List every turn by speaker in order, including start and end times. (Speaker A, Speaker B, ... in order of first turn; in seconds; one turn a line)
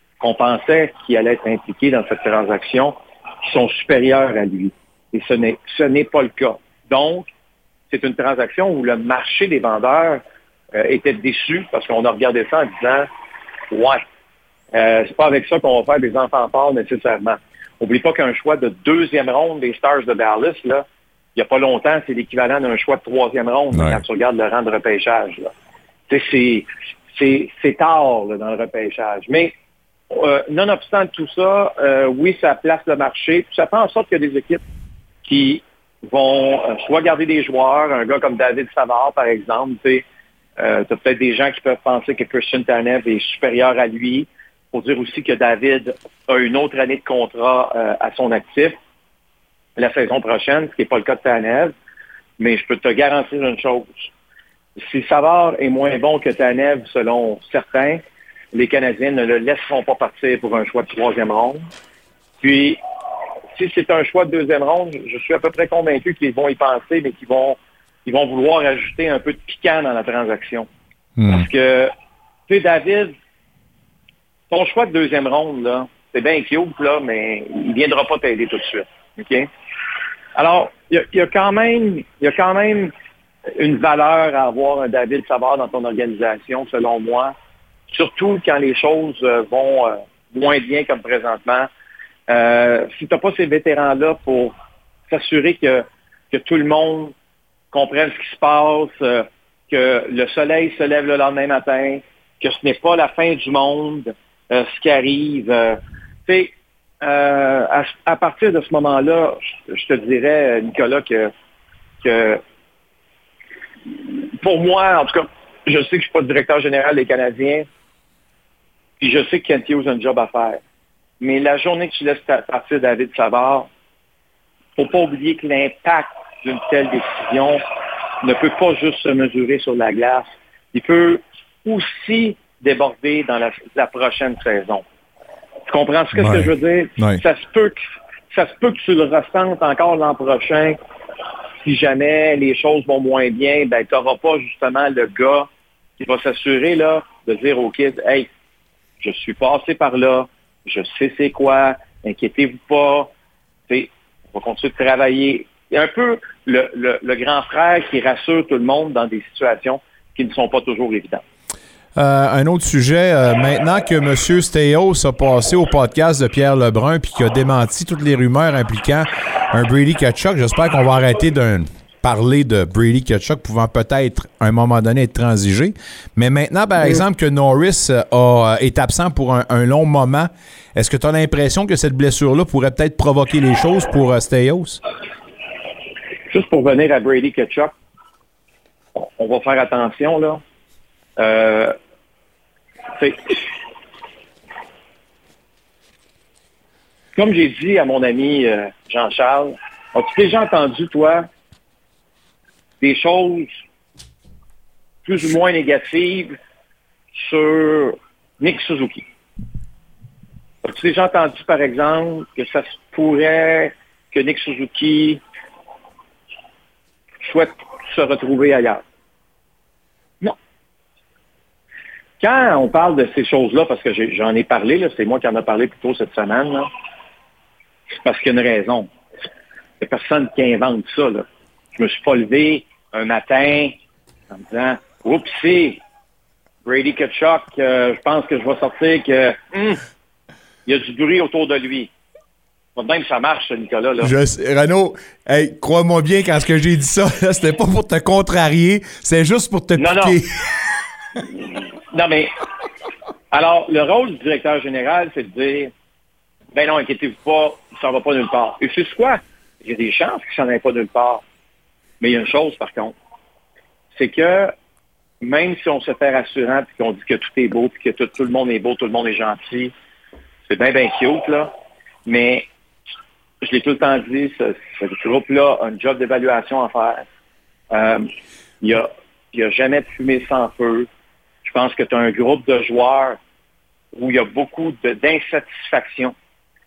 Speaker A: 0.2-7.3
Speaker A: 7.9-10.2
Speaker A: 10.7-13.1
Speaker A: 13.7-14.0
Speaker A: 14.7-20.8
Speaker A: 21.4-25.5
Speaker B: 23.7-24.0
Speaker A: 26.1-29.5
Speaker A: 30.1-34.6
Speaker A: 35.2-40.0
Speaker A: 40.6-48.8
Speaker A: 49.8-51.7
Speaker A: 52.4-54.0
Speaker A: 54.8-58.0
Speaker A: 58.5-61.7
Speaker A: 62.4-62.8
Speaker A: 63.5-70.7
Speaker B: 71.2-71.5
Speaker A: 71.3-71.9
Speaker A: 72.5-73.1
Speaker A: 74.5-79.5
Speaker A: 80.3-82.9
Speaker A: 83.5-87.3
Speaker A: 87.9-91.7
Speaker A: 92.3-94.5
Speaker A: 95.1-97.1
Speaker A: 97.7-111.3
Speaker A: 112.0-112.4
Speaker A: 114.4-117.7
Speaker A: 119.0-120.6
Speaker A: 121.2-123.7
Speaker A: 124.8-127.6
Speaker A: 128.2-134.8
Speaker A: 135.7-137.8
Speaker B: 136.1-137.2
Speaker A: 138.3-140.8
Speaker A: 141.6-148.3
Speaker A: 149.0-153.1
Speaker A: 153.7-161.2
Speaker B: 161.9-184.8
Speaker A: 186.3-187.7
Speaker A: 188.9-190.4
Speaker A: 191.2-191.7
Speaker A: 193.0-193.3
Speaker A: 197.2-201.2
Speaker A: 202.8-203.5
Speaker A: 205.0-206.3
Speaker A: 207.1-209.0
Speaker A: 210.6-215.2
Speaker A: 217.2-218.8
Speaker A: 222.2-226.7
Speaker A: 227.9-228.9
Speaker A: 229.8-233.7
Speaker A: 234.3-235.8
Speaker A: 236.6-239.8
Speaker A: 240.7-241.9
Speaker A: 242.8-244.1
Speaker B: 244.0-250.3
Speaker A: 249.8-250.2
Speaker A: 251.3-252.3
Speaker A: 253.3-255.7
Speaker A: 256.5-261.2
Speaker A: 262.0-262.9
Speaker A: 263.9-264.5
Speaker A: 265.2-269.7
Speaker A: 270.5-271.5
Speaker A: 272.1-272.4
Speaker A: 273.4-277.0
Speaker A: 277.7-278.1
Speaker A: 278.6-280.9
Speaker A: 281.4-283.2
Speaker A: 283.9-286.1